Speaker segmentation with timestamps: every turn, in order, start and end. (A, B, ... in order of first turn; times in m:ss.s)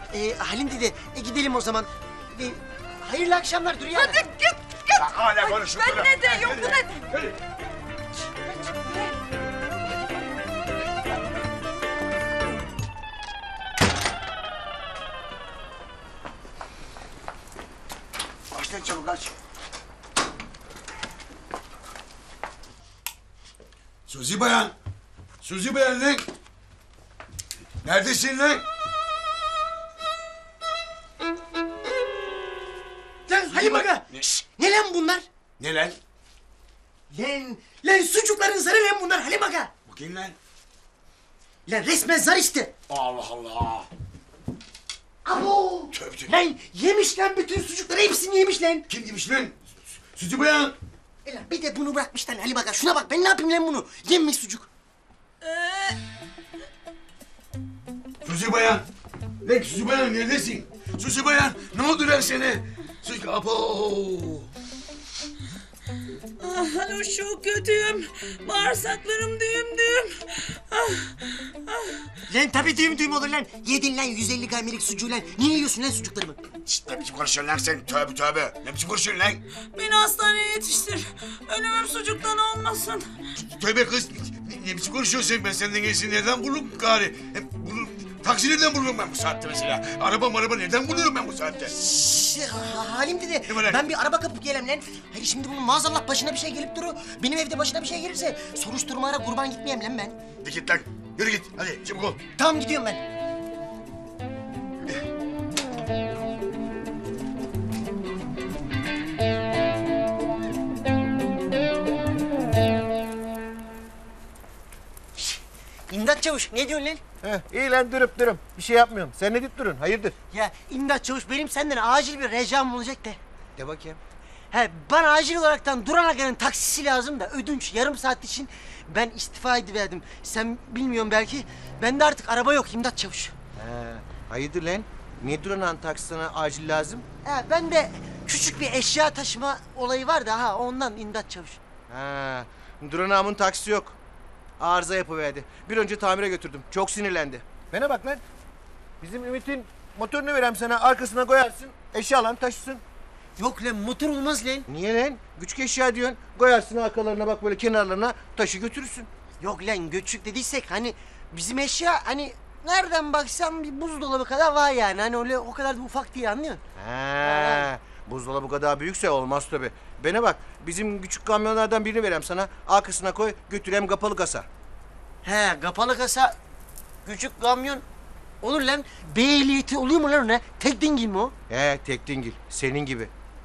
0:00.1-0:04.2 A
0:03.9-0:07.0 B
0:04.9-0:07.3 C
0:08.6-0:09.1 B
0:18.5-0:19.3 C
0:24.1-0:24.7 C
0:25.4-0:26.2 C
0:27.8-0:28.6 C
0:33.3-0:35.2 A
0:33.5-0:34.3 C
0:35.6-0:36.0 C
0:37.1-0:39.7 A
0:39.9-0:40.3 C
0:41.7-0:42.7 A
0:42.9-0:43.9 C
0:45.2-0:48.8 A
0:45.9-0:46.3 C
0:48.9-0:50.7 C
0:51.2-0:54.7 A
0:58.2-0:58.8 C
0:59.4-1:04.5 C
1:06.4-1:11.1 D
1:12.3-1:16.4 A
1:16.6-1:19.4 C
1:19.7-1:23.1 D
1:23.5-1:31.7 C
1:31.7-1:40.2 A
1:33.5-1:33.8 C
1:40.4-1:42.2 C
1:42.4-1:43.0 A
1:55.2-1:57.0 A
1:57.2-2:00.1 E
2:00.3-2:03.2 A
2:03.6-2:04.0 E
2:04.5-2:13.3 A
2:13.6-2:17.0 E
2:17.2-2:21.6 A
2:21.9-2:23.9 E
2:24.6-2:28.2 E
2:29.0-2:32.8 E
2:33.4-2:34.6 A
2:34.7-2:39.1 E
2:39.4-2:46.6 A
2:46.8-2:54.5 E
2:47.2-2:47.7 A
2:55.2-2:56.4 A
2:57.0-2:57.8 A
2:58.4-3:01.3 A
3:01.5-3:03.1 E